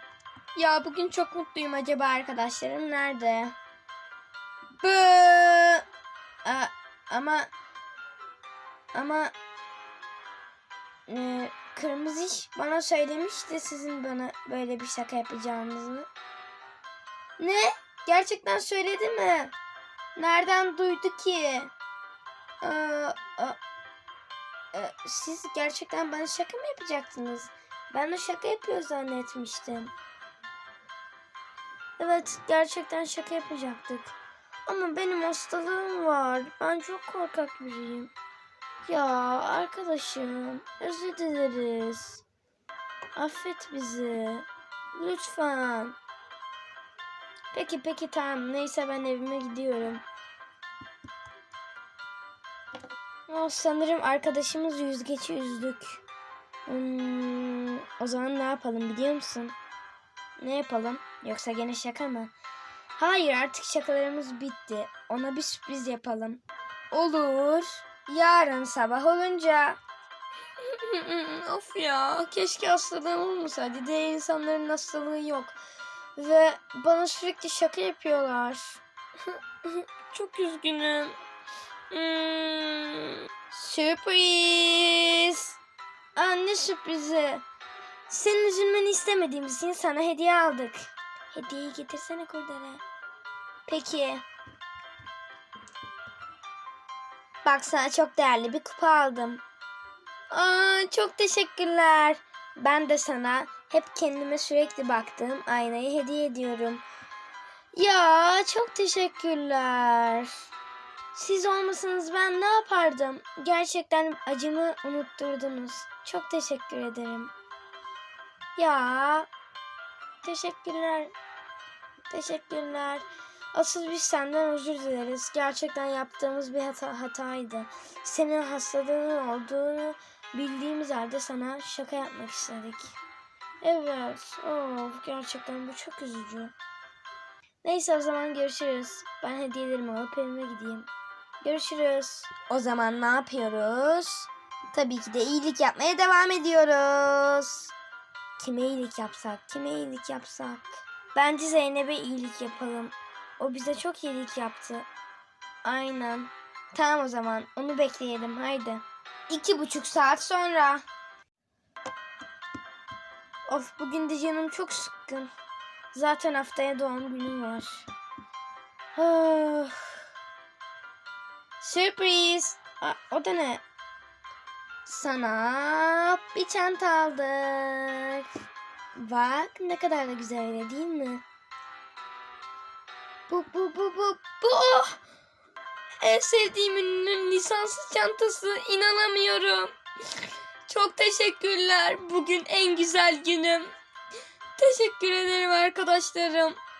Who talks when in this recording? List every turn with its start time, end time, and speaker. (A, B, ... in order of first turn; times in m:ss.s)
0:00.5-0:03.6 A
0:04.8-0:05.8 A
0:06.4-0:07.5 A
0:08.9-0:09.3 A
0:11.1-0:16.1 A
0:17.4-0:19.5 A
0:20.2-0:21.7 A
0:22.6-0:23.6 A
0:24.7-0:29.9 A
0:32.0-0:34.1 A
0:34.6-0:38.1 A
0:38.8-0:42.2 A
0:43.1-0:46.0 A
0:47.5-0:50.0 A
0:53.3-0:56.0 A
0:56.6-0:59.6 A
1:00.4-1:02.3 A
1:03.0-1:09.8 A
1:10.6-1:15.6 A
1:16.2-1:21.1 A
1:21.9-1:25.6 A
1:26.1-1:27.4 A
1:28.1-1:32.8 A
1:33.6-1:34.2 A
1:37.4-1:39.4 A
1:40.3-1:46.8 A
1:47.7-1:50.3 A
1:51.1-1:57.3 A
1:58.6-1:59.3 A
2:00.2-2:01.1 A
2:02.1-2:13.0 A
2:13.6-2:16.5 A
2:17.6-2:20.9 A
2:21.4-2:27.7 A
2:28.4-2:34.9 A
2:35.6-2:40.8 A
2:43.5-2:45.3 A
2:45.9-2:47.9 A
2:48.9-2:49.9 A
2:51.6-2:53.6 A
2:54.8-2:58.2 A
2:59.0-3:01.2 A
3:03.3-3:05.0 A
3:06.0-3:09.7 A
3:10.6-3:13.7 A
3:14.6-3:16.6 A